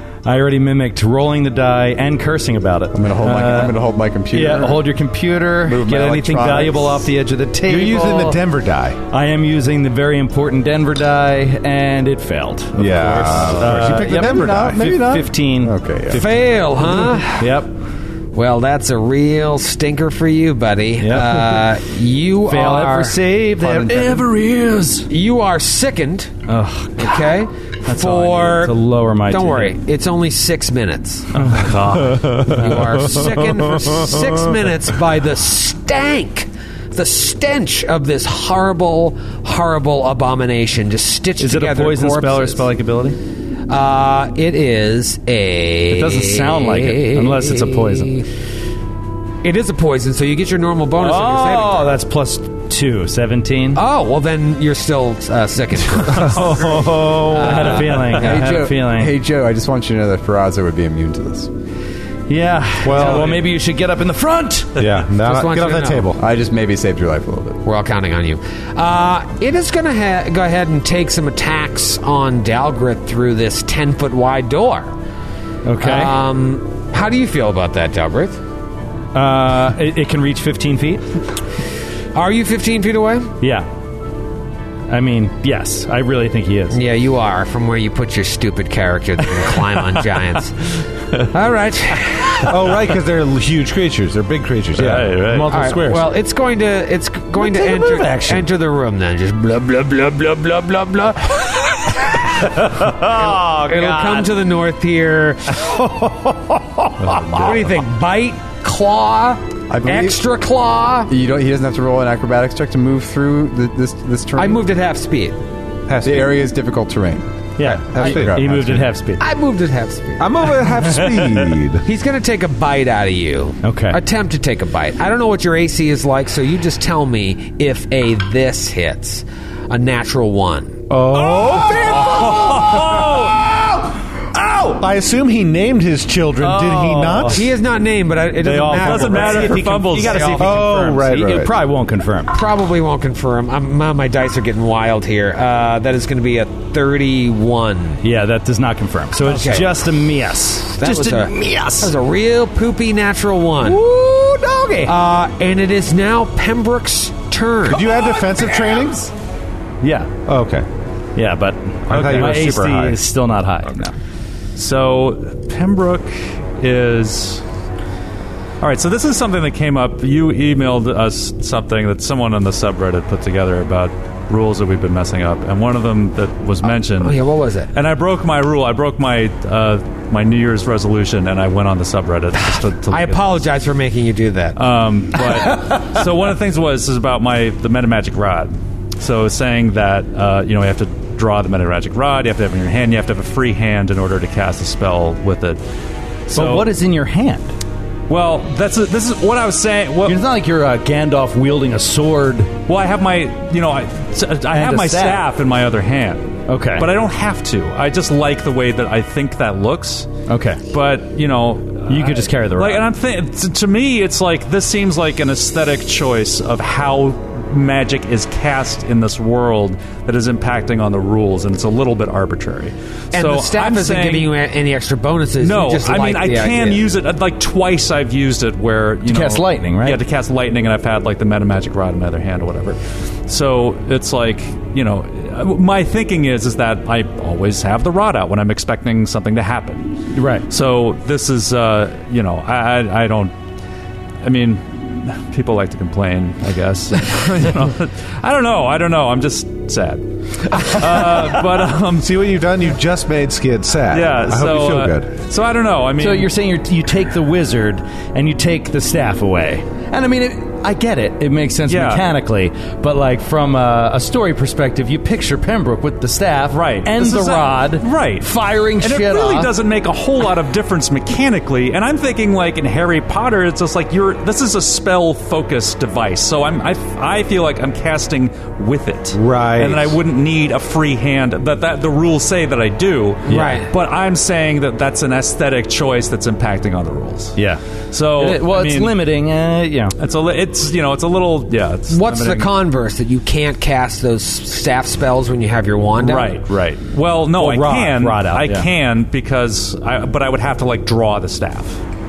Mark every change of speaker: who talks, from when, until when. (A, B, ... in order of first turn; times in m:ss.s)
0:00.2-0:03.8 A
0:02.9-0:04.8 B
0:04.3-0:08.4 A
0:05.6-0:07.1 B
0:07.6-0:09.0 C
0:09.1-0:17.7 A
0:12.7-0:15.0 C
0:14.0-0:16.2 B
0:16.1-0:17.4 D
0:18.3-0:23.2 D
0:21.0-0:21.6 A
0:22.4-0:25.1 A
0:23.6-0:24.2 B
0:25.1-0:26.3 D
0:26.5-0:29.8 A
0:27.0-0:28.7 D
0:29.3-0:31.3 D
0:31.3-0:33.1 A
0:31.3-0:32.5 E
0:31.9-0:34.3 C
0:32.4-0:42.6 D
0:41.4-0:43.2 A
0:43.7-0:48.2 D
0:45.9-0:48.2 A
0:49.4-0:52.0 D
0:51.0-0:53.8 A
0:53.7-0:58.6 D
0:56.1-0:57.8 C
0:56.2-0:59.1 A
0:58.2-1:01.5 B
1:02.3-1:04.8 A
1:02.8-1:03.4 C
1:04.8-1:06.2 C
1:05.1-1:06.2 D
1:06.2-1:07.6 B
1:07.6-1:14.9 D
1:15.6-1:16.2 A
1:15.8-1:18.4 D
1:19.1-1:21.0 A
1:22.1-1:23.3 D
1:23.4-1:23.7 A
1:24.9-1:26.8 A
1:26.7-1:30.7 D
1:31.3-1:32.5 D
1:32.4-1:36.1 C
1:34.7-1:35.5 E
1:35.5-1:45.7 D
1:37.3-1:38.5 A
1:42.3-1:44.3 A
1:45.5-1:47.6 A
1:47.0-1:47.6 E
1:47.1-1:51.1 D
1:49.7-1:50.2 B
1:51.1-1:54.6 B
1:54.4-1:55.4 D
1:55.9-1:56.3 C
1:56.0-1:57.2 B
1:57.6-1:59.2 A
1:57.8-1:58.8 B
1:57.9-1:58.8 C
1:59.2-2:00.5 D
2:00.2-2:01.8 C
2:00.8-2:01.4 A
2:01.8-2:10.8 D
2:03.6-2:04.0 A
2:10.9-2:13.1 C
2:11.1-2:13.8 A
2:12.0-2:13.1 E
2:14.3-2:14.8 A
2:14.8-2:17.4 C
2:16.4-2:17.5 A
2:17.3-2:20.6 D
2:18.4-2:22.4 A
2:18.8-2:20.3 E
2:20.4-2:21.5 C
2:22.3-2:28.0 D
2:28.0-2:31.9 A
2:29.2-2:29.7 D
2:30.7-2:33.8 D
2:33.6-2:34.9 A
2:34.8-2:37.8 D
2:37.6-2:39.1 C
2:39.8-2:40.1 A
2:40.2-2:40.6 C
2:41.2-2:43.9 A
2:41.9-2:43.0 C
2:44.6-2:47.4 E
2:48.6-2:57.2 E
2:56.6-2:57.7 D
2:57.7-3:03.4 E
3:02.4-3:04.6 D
3:04.6-3:15.6 E
3:16.3-3:16.7 E
3:16.3-3:17.5 A
3:18.1-3:20.2 E
3:20.0-3:22.5 A
3:22.7-3:30.1 E
3:24.5-3:25.3 A
3:26.5-3:26.9 A
3:30.3-3:30.6 A
3:30.7-3:44.3 E
3:31.9-3:32.8 A
3:43.1-3:46.8 D
3:45.4-4:03.3 E
3:49.0-3:50.0 A
4:00.1-4:00.4 A
4:04.2-4:12.1 E
4:12.0-4:15.1 C
4:13.9-4:16.3 E
4:16.0-4:29.5 A
4:21.7-4:22.0 E
4:26.5-4:47.4 E
4:39.2-4:40.0 C
4:39.3-4:39.7 A
4:43.3-4:43.7 D
4:47.4-4:47.6 A
4:47.9-4:48.9 E
4:48.2-4:49.9 A
4:50.0-4:52.5 E
4:51.9-4:56.4 D
4:56.0-5:01.8 E
4:57.3-4:58.7 A